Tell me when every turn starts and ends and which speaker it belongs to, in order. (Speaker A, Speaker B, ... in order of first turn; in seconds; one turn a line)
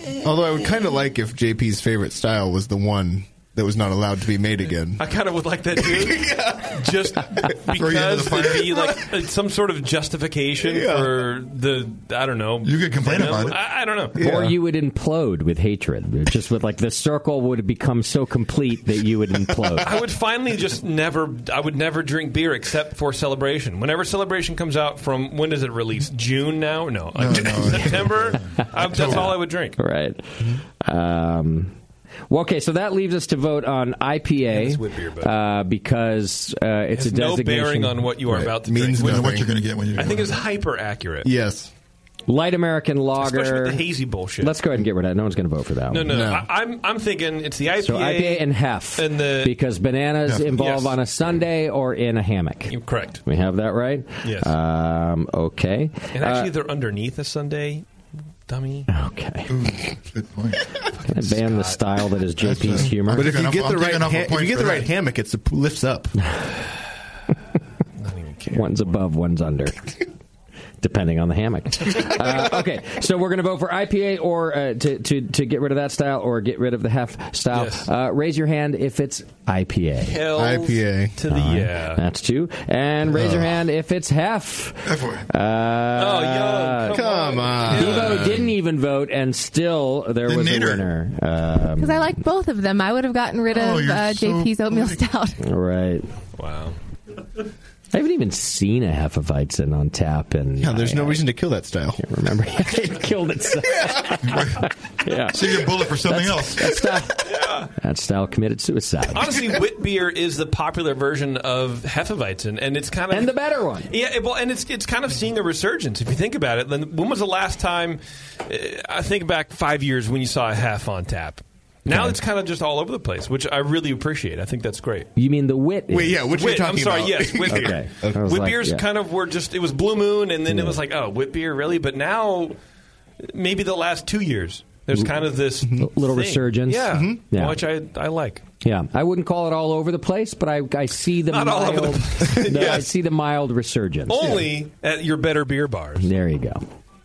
Speaker A: 0.2-5.0
Speaker B: 5.0-14.2
Speaker A: 5.8-6.9
Speaker C: 7.7-8.9
Speaker A: 10.6-11.3
Speaker C: 12.6-13.6
Speaker A: 14.2-14.6
Speaker D: 14.2-20.0
Speaker B: 19.8-29.8
Speaker C: 27.1-29.3
Speaker D: 28.9-31.8
Speaker D: 32.3-38.1
Speaker B: 34.5-35.3
Speaker B: 36.9-39.4
Speaker A: 38.2-39.5
Speaker C: 38.9-40.4
Speaker B: 40.0-41.3
Speaker A: 41.2-41.7
Speaker D: 42.3-43.9
Speaker B: 43.2-44.5
Speaker D: 44.4-46.2
Speaker B: 45.9-49.5
Speaker A: 46.0-46.5
Speaker D: 47.8-52.7
Speaker B: 50.5-50.9
Speaker B: 52.7-53.2
Speaker D: 53.2-56.5
Speaker B: 54.2-54.5
Speaker B: 56.1-57.9
Speaker B: 58.5-58.9
Speaker D: 58.9-59.7
Speaker C: 59.5-60.7
Speaker B: 61.1-61.8
Speaker D: 61.1-63.4
Speaker A: 62.4-66.2
Speaker C: 63.1-64.9
Speaker B: 68.0-69.0
Speaker D: 68.5-69.9
Speaker D: 70.8-80.2
Speaker B: 77.5-77.9
Speaker B: 80.0-82.0
Speaker A: 80.3-81.2
Speaker D: 81.3-92.2
Speaker A: 83.1-83.5
Speaker C: 84.8-85.3
Speaker B: 86.0-88.5
Speaker A: 86.9-88.4
Speaker C: 90.3-90.9
Speaker E: 91.8-95.4
Speaker C: 93.5-95.0
Speaker D: 95.4-96.1
Speaker B: 96.4-96.8
Speaker D: 97.9-101.3
Speaker A: 100.6-102.0
Speaker D: 102.0-109.4
Speaker C: 104.2-104.7
Speaker C: 105.2-107.0
Speaker B: 107.2-107.7
Speaker B: 109.1-113.3
Speaker D: 113.1-113.9
Speaker B: 113.9-125.1
Speaker D: 121.9-122.2
Speaker D: 125.2-126.3
Speaker A: 125.9-128.2
Speaker B: 126.3-132.6
Speaker D: 127.5-128.9
Speaker D: 130.5-130.8
Speaker B: 133.2-138.4
Speaker A: 135.7-135.9
Speaker D: 135.8-137.6
Speaker A: 136.9-137.2
Speaker D: 138.6-144.4
Speaker B: 141.3-142.9
Speaker B: 144.1-146.1
Speaker A: 144.2-144.5
Speaker D: 146.0-146.7